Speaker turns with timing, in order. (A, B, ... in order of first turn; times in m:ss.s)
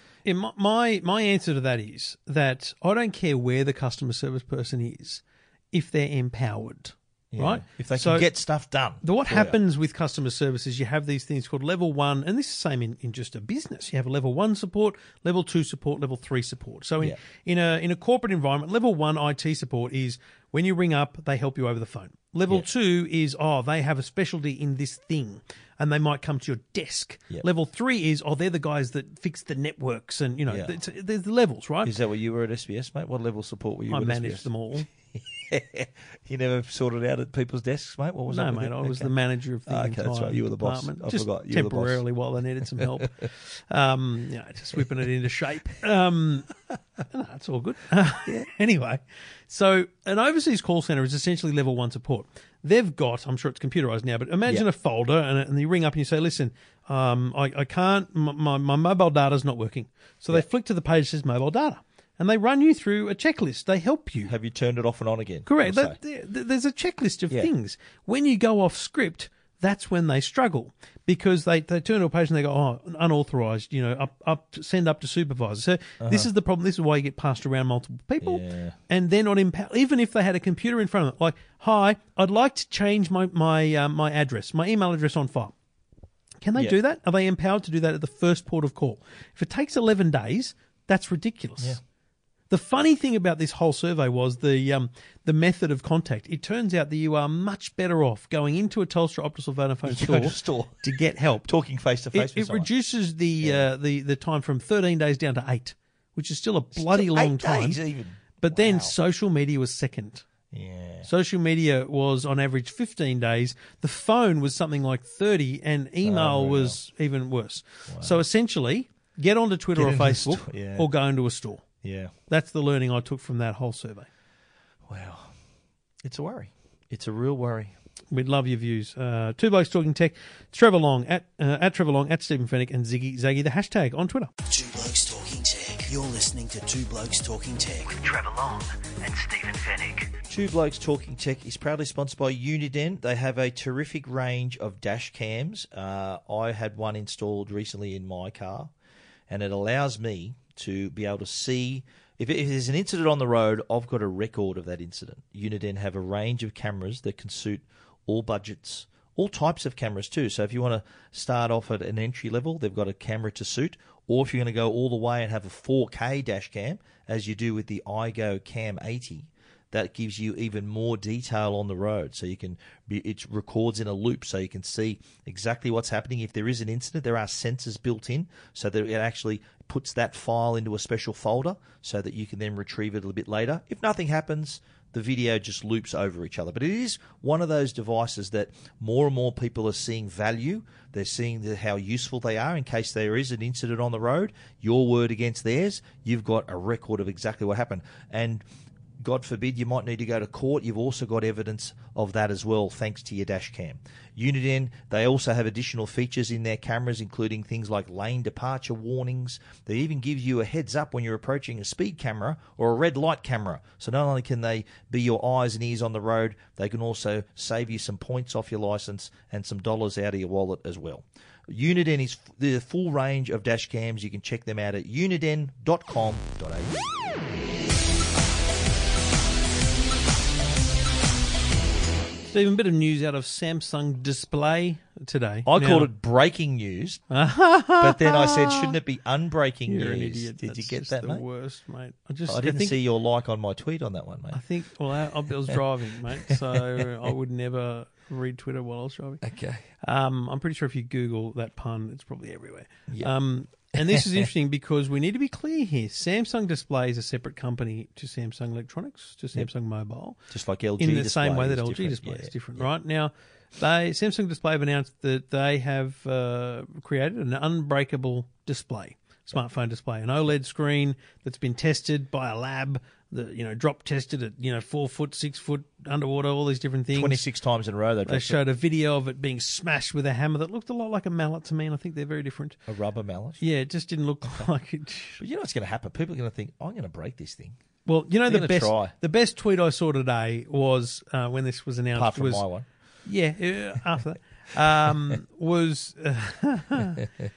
0:00.2-0:08.3 A
0:07.3-0:09.6 B
0:09.0-0:31.9 A
0:30.5-0:30.7 B
0:31.8-0:34.5 B
0:33.9-0:34.9 A
0:35.1-0:39.1 B
0:38.3-0:46.5 A
0:39.7-0:42.0 B
0:47.1-1:04.3 A
1:04.2-1:06.0 B
1:05.4-1:25.5 A
1:16.0-1:16.3 B
1:18.2-1:18.8 B
1:26.4-1:31.8 A
1:32.5-1:41.5 A
1:39.8-1:42.7 B
1:42.1-1:47.8 A
1:43.4-1:43.6 B
1:46.7-1:48.9 B
1:48.4-1:50.2 A
1:50.5-1:51.1 B
1:51.0-2:01.6 A
1:56.0-1:56.8 B
1:57.9-1:58.2 B
1:59.8-2:00.9 B
2:01.8-2:02.1 B
2:02.3-2:04.1 A
2:04.9-2:05.3 B
2:06.0-2:07.7 B
2:08.1-2:14.3 A
2:14.4-2:20.2 C
2:20.3-2:28.7 B
2:29.3-3:18.4 B
3:19.0-3:46.8 B
3:52.3-3:55.9 A
3:55.4-3:57.0 B
3:57.1-3:58.8 A
3:57.8-4:01.2 B
3:59.7-4:02.8 A
4:02.3-4:04.4 B
4:04.3-4:09.2 A
4:06.3-4:06.8 B
4:09.2-4:09.6 B
4:09.8-4:20.2 A
4:20.3-4:22.6 B
4:20.8-4:37.2 A
4:36.9-4:38.4 B
4:38.0-4:42.6 A
4:42.7-4:43.4 B
4:43.4-4:45.2 A
4:45.2-4:47.6 B
4:47.9-4:52.4 A
4:48.3-4:48.9 B
4:51.9-4:52.7 B
4:53.0-4:57.1 A